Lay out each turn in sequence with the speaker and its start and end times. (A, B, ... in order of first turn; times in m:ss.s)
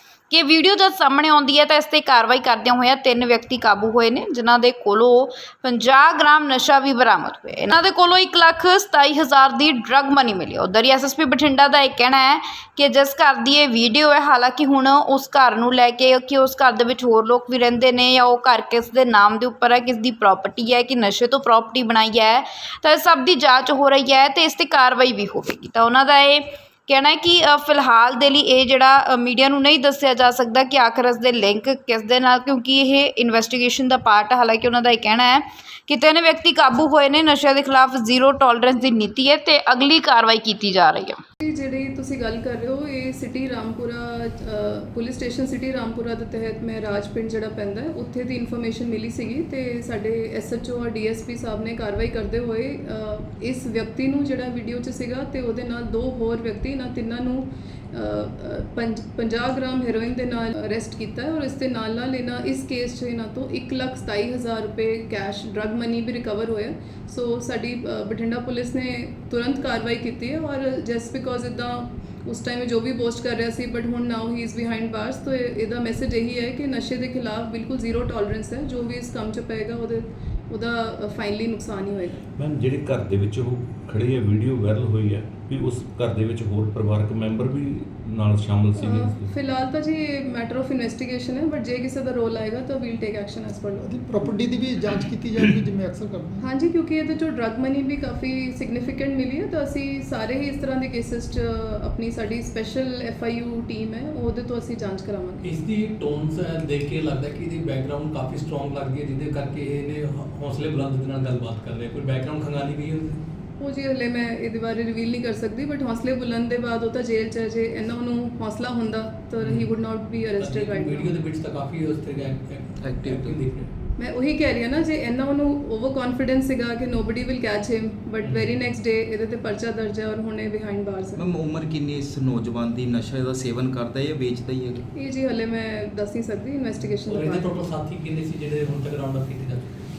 0:00.3-0:41.2 A
0:41.4-1:22.2 B
1:22.4-1:29.3 C
1:28.8-1:33.9 B
1:33.8-1:36.5 D
1:36.4-1:45.5 B
1:45.4-1:53.2 E
1:53.6-2:01.1 B
1:59.4-1:59.7 E
2:00.4-2:03.7 E
2:02.8-2:03.4 F
2:04.0-2:11.2 B
2:08.2-2:08.6 E
2:11.2-2:14.8 F
2:15.0-2:17.5 B
2:17.1-2:19.9 E